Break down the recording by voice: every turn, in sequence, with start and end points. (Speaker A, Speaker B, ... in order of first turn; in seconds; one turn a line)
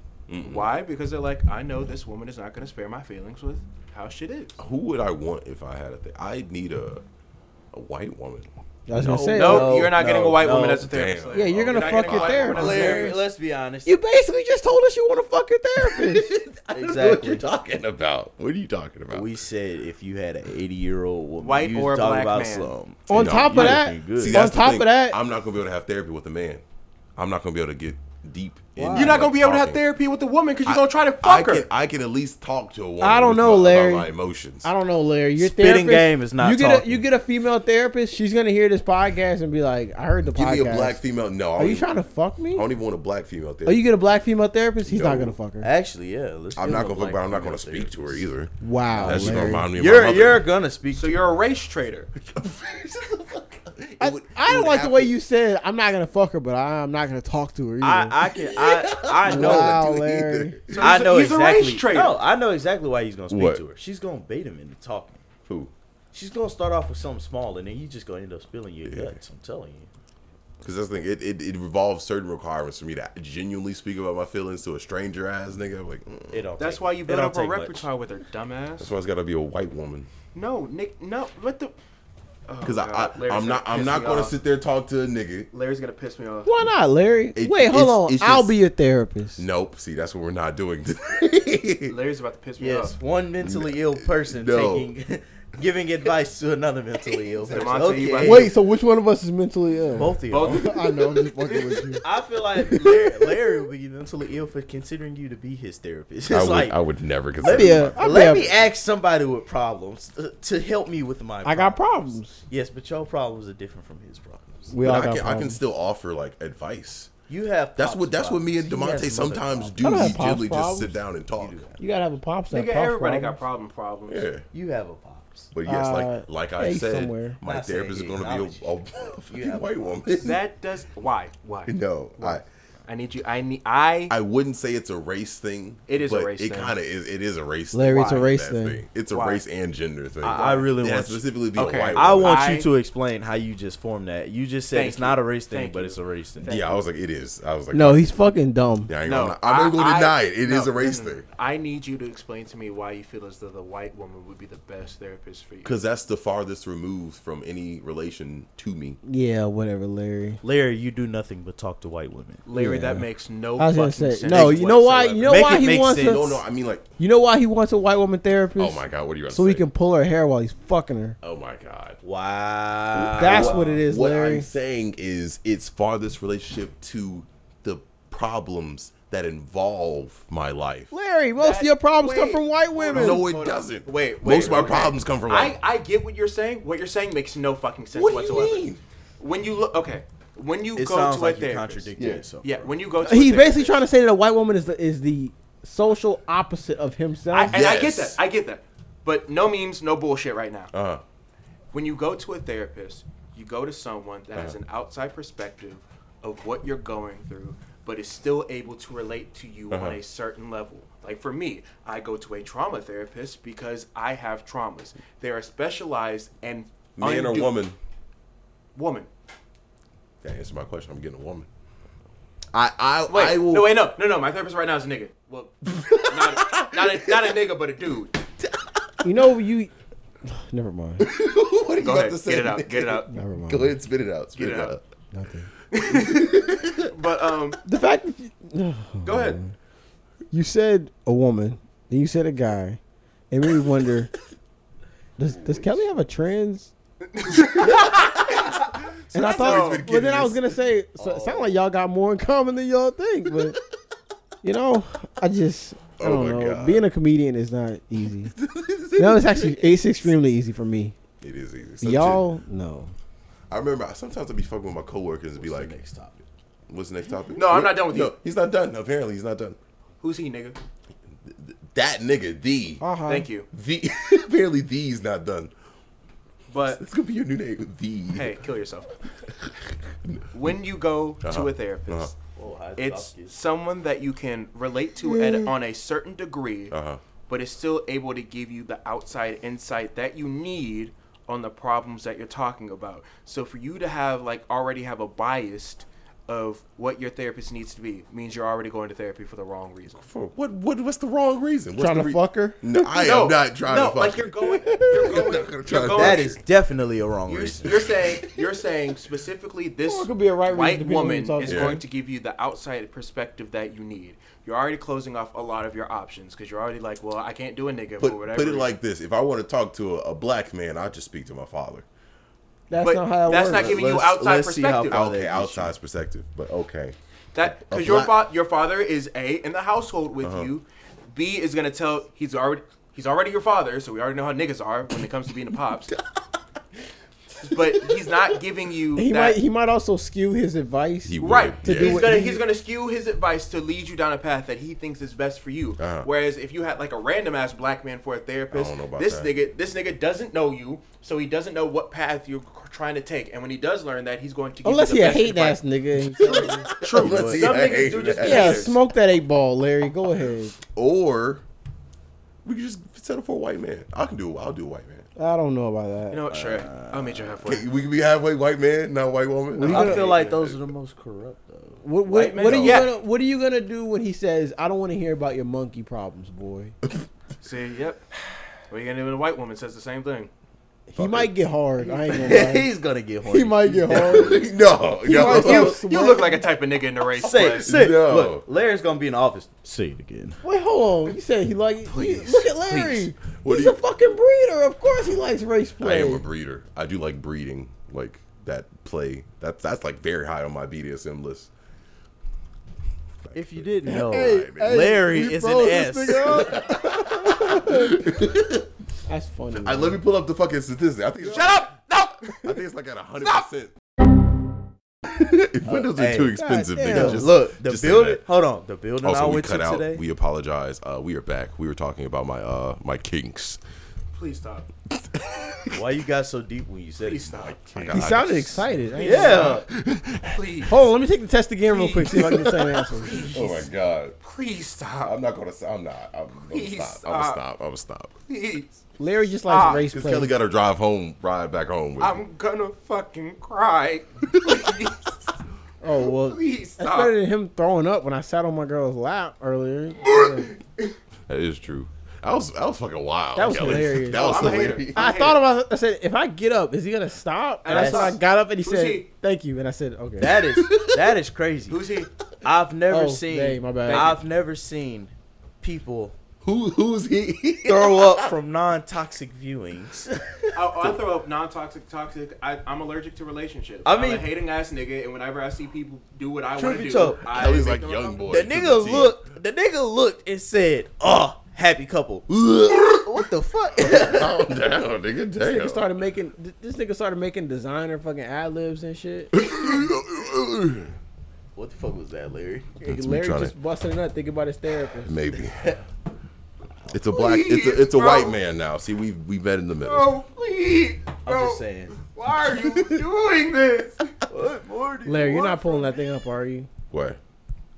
Speaker A: 0.3-0.7
Speaker B: 0.4-4.6
Speaker A: 4.6-7.0
Speaker A: 7.7-8.5
Speaker C: 8.9-9.8
Speaker D: 9.0-10.9
Speaker B: 9.3-13.2
Speaker A: 10.9-13.1
Speaker C: 11.3-13.2
Speaker D: 12.4-13.9
Speaker C: 13.9-16.3
Speaker A: 15.8-19.4
Speaker D: 16.7-17.4
Speaker D: 19.1-24.4
Speaker B: 21.4-22.7
Speaker C: 23.1-25.2
Speaker A: 23.1-26.6
Speaker A: 27.2-29.8
Speaker C: 28.8-29.2
Speaker B: 28.9-31.7
Speaker A: 30.7-34.7
Speaker C: 33.0-34.1
Speaker C: 34.6-41.0
Speaker D: 35.4-37.0
Speaker A: 40.2-42.0
Speaker C: 41.6-42.6
Speaker A: 42.5-43.9
Speaker C: 43.6-45.7
Speaker A: 44.8-45.4
Speaker D: 45.6-48.3
Speaker A: 46.5-50.5
Speaker C: 48.6-49.7
Speaker D: 48.9-51.3
Speaker B: 50.9-52.1
Speaker A: 52.2-55.1
Speaker C: 54.0-58.2
Speaker D: 57.8-59.8
Speaker A: 58.4-60.9
Speaker C: 59.2-60.6
Speaker B: 60.7-62.2
Speaker D: 60.8-65.2
Speaker A: 63.3-63.6
Speaker D: 66.1-69.9
Speaker A: 68.8-69.2
Speaker A: 70.6-76.5
Speaker D: 76.3-77.9
Speaker B: 76.6-78.9
Speaker A: 78.8-80.1
Speaker B: 80.3-81.7
Speaker B: 82.5-84.3
Speaker A: 82.6-85.5
Speaker B: 85.5-86.5
Speaker C: 86.5-89.4
Speaker A: 87.3-88.5
Speaker A: 89.4-92.0
Speaker B: 91.9-93.0
Speaker D: 92.6-98.5
Speaker A: 93.4-94.9
Speaker A: 97.3-98.0
Speaker B: 97.4-98.5
Speaker C: 98.2-102.1
Speaker D: 100.0-100.7
Speaker B: 100.3-101.9
Speaker D: 102.0-106.8
Speaker C: 102.7-103.1
Speaker A: 106.3-108.7
Speaker D: 107.4-114.7
Speaker C: 107.4-108.5
Speaker C: 111.4-112.4
Speaker C: 114.7-115.6
Speaker A: 114.8-117.1
Speaker D: 117.3-120.2
Speaker A: 117.8-121.7
Speaker C: 119.8-121.0
Speaker D: 121.4-121.8
Speaker C: 121.8-123.4
Speaker B: 122.5-124.3
Speaker A: 124.1-124.5
Speaker D: 124.5-125.5
Speaker A: 125.5-130.4
Speaker C: 125.7-127.4
Speaker D: 127.4-130.2
Speaker B: 130.2-132.3
Speaker A: 131.7-132.4
Speaker B: 132.9-134.1
Speaker A: 134.1-142.5
Speaker B: 135.9-136.8
Speaker C: 137.7-138.8
Speaker B: 137.9-138.3
Speaker B: 139.1-139.4
Speaker B: 140.2-140.8
Speaker D: 140.3-146.7
Speaker B: 141.5-142.7
Speaker B: 144.7-146.0
Speaker A: 146.4-148.1
Speaker C: 147.7-148.9
Speaker A: 148.9-151.2
Speaker B: 149.1-155.8
Speaker A: 155.6-159.0
Speaker C: 159.0-160.4
Speaker D: 160.4-162.4
Speaker B: 162.4-165.5
Speaker C: 162.5-166.4
Speaker A: 164.3-164.6
Speaker D: 165.2-166.4
Speaker A: 165.9-166.9
Speaker C: 167.0-171.2
Speaker A: 168.6-169.7
Speaker A: 171.2-172.0
Speaker D: 172.0-173.8
Speaker A: 172.9-180.9
Speaker C: 173.2-174.5
Speaker C: 180.9-183.3
Speaker B: 181.4-188.7
Speaker A: 182.9-185.6
Speaker A: 187.9-188.8
Speaker B: 189.2-191.9
Speaker D: 190.8-192.7
Speaker A: 192.0-192.3
Speaker B: 192.4-193.8
Speaker C: 193.0-197.6
Speaker B: 197.3-200.7
Speaker A: 197.5-198.2
Speaker A: 200.7-201.0
Speaker B: 201.7-217.6
Speaker A: 209.7-210.0
Speaker A: 217.0-217.8
Speaker B: 218.8-219.1
Speaker A: 220.2-221.5
Speaker A: 222.5-223.8
Speaker B: 223.1-228.2
Speaker A: 225.7-227.3
Speaker A: 228.4-228.8
Speaker C: 229.0-229.7
Speaker C: 230.2-231.1
Speaker A: 231.0-234.8
Speaker B: 231.8-233.1
Speaker C: 233.1-233.8
Speaker B: 234.4-234.8
Speaker C: 235.1-235.5
Speaker B: 235.7-237.6
Speaker A: 235.8-236.9
Speaker C: 237.7-239.5
Speaker B: 239.0-239.4
Speaker C: 240.3-242.8
Speaker C: 243.3-244.1
Speaker C: 245.2-246.7
Speaker B: 247.1-248.8
Speaker A: 247.6-250.6
Speaker C: 249.1-253.6
Speaker B: 249.4-249.8
Speaker D: 251.0-251.6
Speaker C: 254.4-258.3
Speaker A: 256.0-256.9
Speaker A: 258.3-260.1
Speaker C: 259.0-261.0
Speaker A: 261.2-262.2
Speaker C: 261.8-262.9
Speaker A: 263.5-265.7
Speaker D: 265.4-266.3
Speaker A: 266.7-269.6
Speaker B: 267.4-268.2
Speaker B: 270.0-270.6
Speaker A: 271.2-272.8
Speaker C: 272.8-273.3
Speaker B: 273.1-273.5
Speaker A: 273.5-275.5
Speaker B: 276.5-276.8
Speaker A: 276.7-278.4
Speaker B: 278.1-279.0
Speaker A: 279.4-280.2
Speaker B: 280.3-282.2
Speaker A: 281.2-282.1
Speaker D: 282.4-283.3
Speaker B: 282.8-286.8
Speaker A: 285.1-285.4
Speaker A: 286.7-287.0
Speaker B: 287.3-300.0
Speaker A: 300.0-306.4
Speaker C: 301.8-303.0
Speaker B: 303.0-306.4
Speaker C: 304.7-305.1
Speaker D: 305.8-307.9
Speaker B: 307.3-318.7
Speaker A: 307.7-308.4
Speaker C: 309.9-311.8
Speaker A: 311.4-311.8
Speaker A: 318.0-321.9
Speaker C: 322.7-323.7
Speaker B: 322.8-325.0
Speaker D: 323.5-325.7
Speaker A: 324.9-328.2
Speaker B: 327.3-335.9
Speaker A: 330.2-330.5
Speaker B: 337.4-339.4
Speaker A: 337.6-338.1
Speaker C: 339.0-342.4
Speaker A: 341.1-342.1
Speaker B: 341.2-355.6
Speaker A: 345.8-346.1
Speaker A: 348.5-349.3
Speaker C: 354.6-356.7
Speaker B: 356.2-358.8
Speaker A: 356.2-358.7
Speaker D: 356.9-358.5
Speaker C: 358.2-360.6
Speaker A: 360.6-361.4
Speaker A: 362.4-365.1
Speaker C: 365.2-366.2
Speaker B: 366.1-367.6
Speaker D: 366.3-367.5
Speaker A: 367.4-370.6
Speaker C: 369.6-370.1
Speaker D: 369.6-372.9
Speaker B: 369.7-370.4
Speaker C: 371.8-376.8
Speaker A: 372.4-372.9
Speaker B: 372.6-372.9
Speaker B: 377.4-378.1
Speaker B: 378.7-380.3
Speaker C: 380.9-382.7
Speaker A: 381.0-381.3
Speaker D: 381.9-384.5
Speaker C: 383.3-384.5
Speaker A: 383.9-385.8
Speaker C: 385.0-386.4
Speaker B: 385.2-387.7
Speaker D: 387.2-390.4
Speaker A: 387.2-388.4
Speaker C: 390.4-396.2
Speaker D: 392.0-392.8
Speaker A: 393.4-393.8
Speaker A: 395.8-401.5
Speaker A: 403.2-405.1
Speaker D: 403.3-406.6
Speaker C: 403.9-408.1
Speaker A: 406.1-408.7
Speaker C: 409.1-410.0
Speaker A: 409.6-413.7
Speaker A: 415.1-418.2
Speaker D: 415.6-420.0
Speaker C: 416.3-417.3
Speaker A: 419.0-423.6
Speaker B: 424.1-424.7
Speaker A: 425.0-425.8
Speaker D: 425.7-427.5
Speaker B: 427.0-428.1
Speaker A: 427.4-430.6
Speaker C: 427.9-429.6
Speaker B: 429.0-429.6
Speaker D: 429.0-429.7
Speaker B: 430.3-430.8
Speaker C: 430.7-433.3
Speaker B: 431.7-432.5
Speaker A: 432.2-432.7
Speaker B: 433.0-433.7
Speaker A: 433.2-434.2
Speaker B: 434.2-435.2
Speaker A: 435.0-438.1
Speaker B: 436.5-437.4
Speaker B: 438.3-438.8
Speaker C: 439.0-440.3
Speaker B: 439.5-439.9
Speaker A: 439.6-442.2
Speaker B: 442.0-445.3
Speaker C: 445.8-450.5
Speaker B: 446.0-447.1
Speaker B: 450.1-450.9
Speaker A: 451.3-455.2
Speaker C: 453.4-460.4
Speaker B: 454.0-455.4
Speaker B: 457.6-459.1
Speaker D: 457.7-458.2
Speaker D: 460.2-461.9
Speaker A: 460.4-461.1
Speaker B: 461.7-462.1
Speaker D: 462.4-466.2
Speaker C: 462.9-464.1
Speaker B: 463.9-464.2
Speaker A: 466.4-468.3
Speaker D: 467.6-470.5
Speaker B: 470.5-478.3
Speaker D: 473.9-474.3
Speaker D: 476.6-477.7
Speaker A: 477.3-479.2
Speaker D: 478.3-484.4
Speaker A: 482.3-485.9
Speaker C: 485.4-489.3
Speaker A: 489.3-490.9
Speaker D: 491.6-492.7
Speaker C: 492.8-495.2
Speaker A: 492.9-493.5
Speaker A: 495.0-495.8
Speaker A: 496.9-500.1
Speaker B: 497.1-498.4
Speaker B: 499.8-504.2
Speaker D: 501.2-501.9
Speaker D: 504.3-505.9
Speaker C: 505.1-506.7
Speaker A: 506.9-507.2